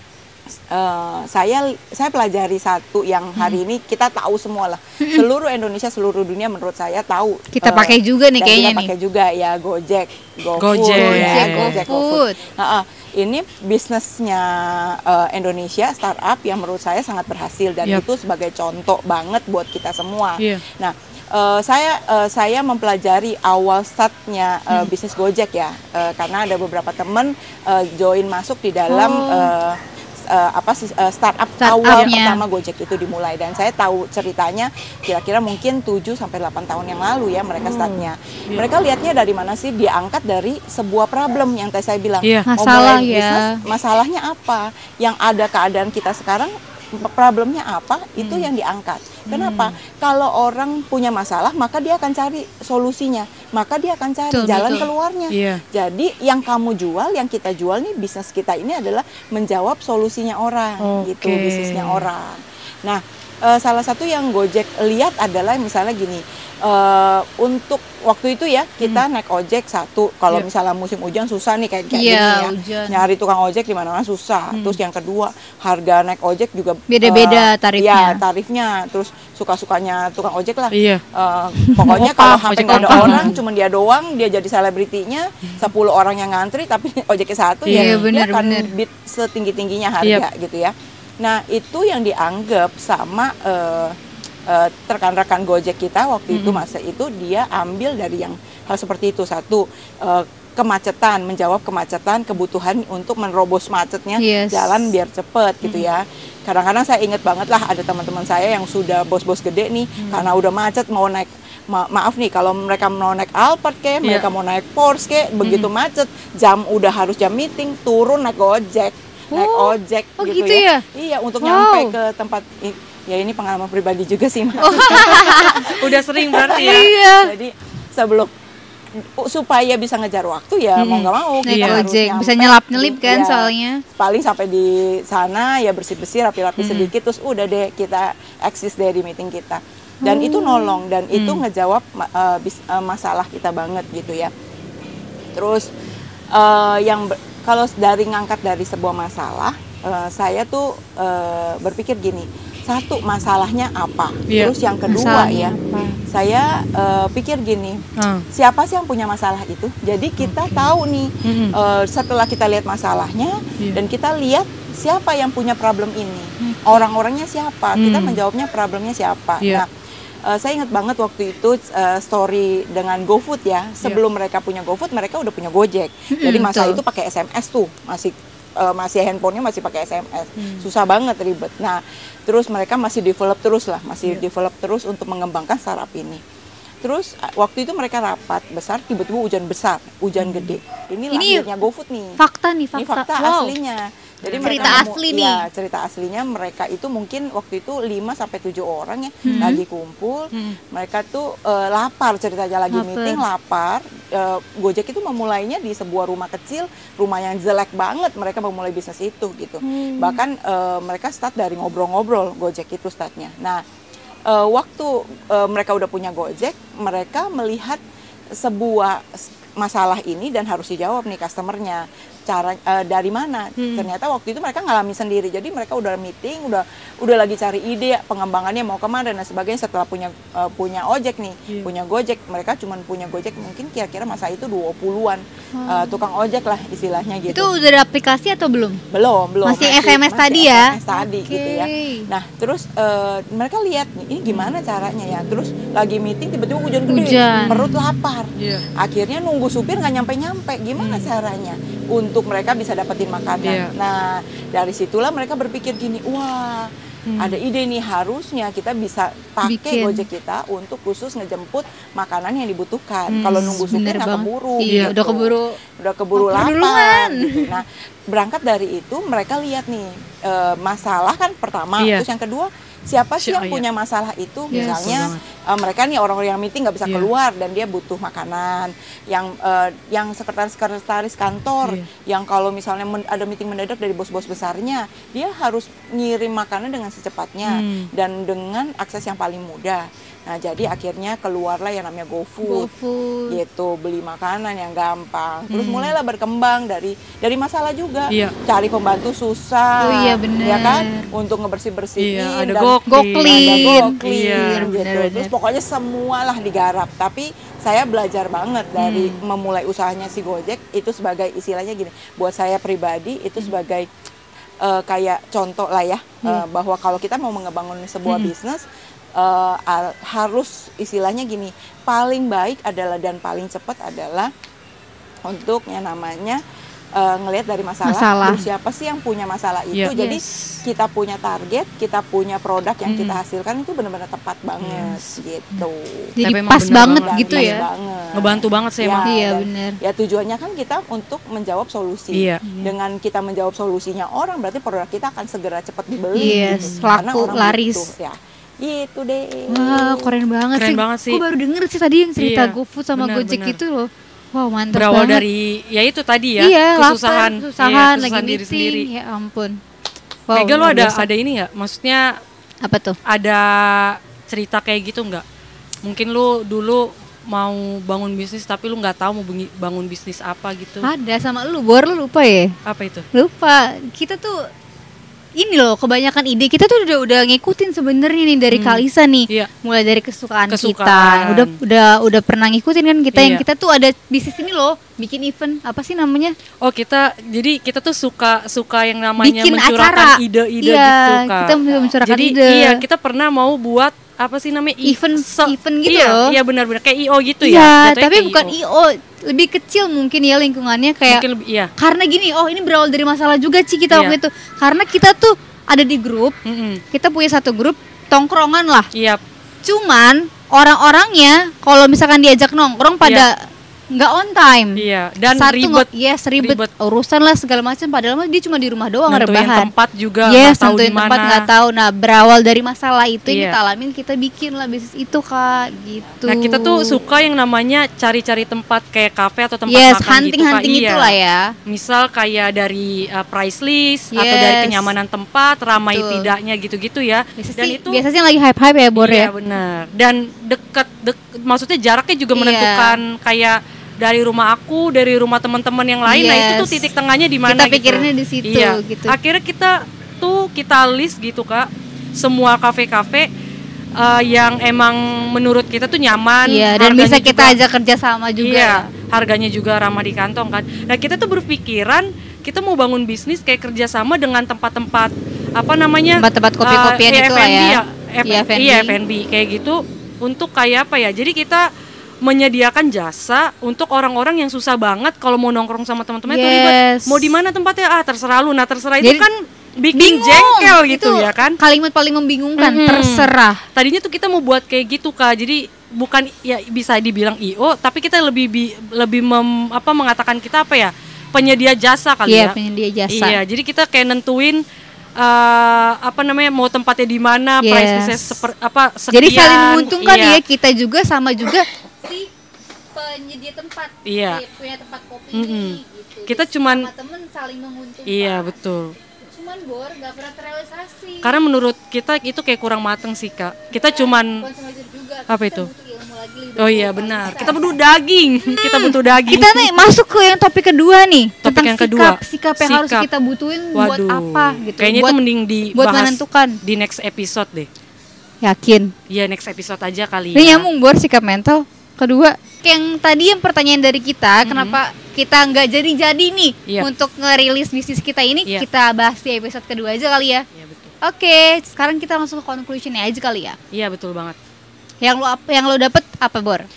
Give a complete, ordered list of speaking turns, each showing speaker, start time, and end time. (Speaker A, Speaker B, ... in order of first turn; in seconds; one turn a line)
Speaker A: 0.7-29.8
Speaker B: 5.0-5.2
Speaker B: 7.5-8.9
Speaker C: 10.6-11.9
Speaker B: 10.9-12.4
Speaker B: 28.9-29.5
Speaker A: 30.3-94.0
Speaker B: 31.6-32.4
Speaker C: 37.6-38.7
Speaker C: 42.2-42.5
Speaker B: 42.5-43.6
Speaker C: 48.2-48.5
Speaker C: 49.3-49.8
Speaker B: 54.3-54.9
Speaker C: 55.3-55.6
Speaker C: 60.8-62.1
Speaker B: 71.9-73.0
Speaker C: 74.5-74.8
Speaker B: 76.9-78.2
Speaker C: 80.7-81.0
Speaker B: 81.6-82.1
Speaker C: 81.9-83.3
Speaker B: 82.7-83.3
Speaker C: 87.7-88.1
Speaker B: 87.7-88.7
Speaker A: 94.5-128.3
Speaker C: 96.3-96.6
Speaker B: 104.2-104.9
Speaker C: 105.6-105.9
Speaker C: 110.0-110.4
Speaker C: 115.4-115.7
Speaker B: 119.3-120.8
Speaker B: 121.4-121.9
Speaker B: 124.6-125.7
Speaker C: 124.8-126.9
Speaker B: 126.3-127.3
Speaker A: 129.2-144.3
Speaker C: 130.8-131.8
Speaker B: 131.4-133.8
Speaker C: 136.6-136.9
Speaker B: 140.0-140.8
Speaker C: 141.1-141.4
Speaker A: 145.3-145.7
Speaker A: 146.3-169.7
Speaker C: 154.3-154.5
Speaker B: 154.9-155.9
Speaker C: 158.0-158.2
Speaker C: 160.2-160.7
Speaker C: 161.2-161.6
Speaker B: 166.4-166.9
Speaker C: 167.8-168.2
Speaker A: 170.2-186.2
Speaker B: 176.1-176.8
Speaker C: 180.4-180.7
Speaker A: 186.8-192.2
Speaker C: 190.2-190.5
Speaker B: 191.1-191.5
Speaker B: 192.2-193.5
Speaker A: 192.8-213.6
Speaker C: 194.2-194.9
Speaker B: 194.4-195.4
Speaker B: 199.2-199.6
Speaker C: 199.2-199.6
Speaker C: 200.3-200.6
Speaker B: 202.7-203.2
Speaker B: 209.6-210.2
Speaker A: 214.3-217.8
Speaker A: 218.4-237.5
Speaker C: 223.6-223.9
Speaker B: 235.5-236.0
Speaker B: 237.3-238.8
Speaker A: 238.9-292.7
Speaker B: 239.4-242.1
Speaker C: 244.3-244.5
Speaker B: 246.9-247.7
Speaker C: 247.3-247.7
Speaker C: 248.3-248.7
Speaker C: 250.8-251.1
Speaker C: 253.4-253.7
Speaker C: 257.1-257.4
Speaker B: 259.4-260.1
Speaker C: 263.1-263.7
Speaker B: 263.3-265.6
Speaker C: 264.6-264.9
Speaker B: 266.1-267.6
Speaker C: 271.8-272.1
Speaker C: 273.2-273.6
Speaker C: 274.5-275.2
Speaker C: 287.4-287.9
Speaker B: 292.4-293.4
Speaker A: 293.3-302.8
Speaker C: 295.5-295.9
Speaker B: 299.8-301.1
Speaker C: 302.0-304.7
Speaker B: 302.9-305.3
Speaker A: 303.3-313.9
Speaker C: 308.8-309.2
Speaker A: 314.6-318.6
Speaker C: 318.1-318.3
Speaker A: 319.1-324.3
Speaker A: 325.2-326.4
Speaker A: 326.9-350.1
Speaker B: 327.8-328.4
Speaker B: 329.9-330.2
Speaker C: 332.9-333.2
Speaker C: 334.6-335.0
Speaker B: 336.2-337.6
Speaker C: 336.2-337.6
Speaker C: 338.1-339.1
Speaker B: 339.1-339.8
Speaker C: 342.1-342.4
Speaker B: 342.4-342.7
Speaker B: 346.1-347.9
Speaker C: 346.2-346.9
Speaker B: 349.5-355.2
Speaker C: 350.6-351.2
Speaker C: 352.2-353.6
Speaker C: 354.7-358.9
Speaker B: 356.4-359.6
Speaker B: 360.3-361.1
Speaker C: 360.3-362.1
Speaker B: 362.6-362.9
Speaker C: 363.1-365.2
Speaker C: 365.8-370.9
Speaker B: 370.8-372.5
Speaker C: 372.6-373.1
Speaker B: 373.1-374.4
Speaker B: 375.4-386.3
Speaker C: 378.5-379.5
Speaker C: 380.5-381.5
Speaker C: 383.1-383.4
Speaker C: 386.6-398.6
Speaker B: 389.2-392.8
Speaker B: 394.8-396.4
Speaker B: 397.4-401.2
Speaker C: 401.1-401.7
Speaker B: 401.8-406.4
Speaker C: 403.9-404.2
Speaker C: 406.4-406.8
Speaker B: 406.9-408.9
Speaker C: 408.9-409.2
Speaker B: 409.6-419.7
Speaker C: 414.8-415.9
Speaker C: 416.4-416.7
Speaker C: 419.1-421.5
Speaker B: 420.2-427.0
Speaker C: 423.3-423.6
Speaker C: 426.2-431.1
Speaker B: 429.7-431.5
Speaker C: 431.7-438.0
Speaker B: 434.1-434.9
Speaker B: 435.8-436.3
Speaker B: 437.4-439.3
Speaker C: 438.9-453.3
Speaker B: 442.3-443.0
Speaker B: 446.1-446.9
Speaker B: 447.4-449.1
Speaker C: 454.0-457.6
Speaker B: 456.4-458.9
Speaker C: 458.4-471.6
Speaker B: 466.2-469.0
Speaker C: 472.2-481.6
Speaker B: 476.3-477.3
Speaker B: 479.0-479.3
Speaker B: 479.9-483.6
Speaker C: 482.6-492.5
Speaker B: 492.3-493.4
Speaker C: 493.1-494.6
Speaker C: 495.2-500.4
Speaker B: 497.6-498.4
Speaker B: 499.1-502.3
Speaker B: 502.9-508.6
Speaker C: 504.1-504.4
Speaker C: 505.3-506.9
Speaker C: 508.1-508.9
Speaker B: 509.2-511.3
Speaker C: 511.2-514.4
Speaker B: 513.7-517.8
Speaker C: 515.3-515.7
Speaker C: 516.6-519.7
Speaker B: 518.4-525.2
Speaker C: 521.4-523.0
Speaker C: 523.7-527.7
Speaker B: 525.7-526.6
Speaker B: 528.4-528.9
Speaker C: 529.1-530.7
Speaker B: 530.3-540.4
Speaker C: 534.4-534.8
Speaker C: 540.5-540.9
Speaker B: 541.0-543.6
Speaker C: 543.7-544.4
Speaker B: 545.0-546.7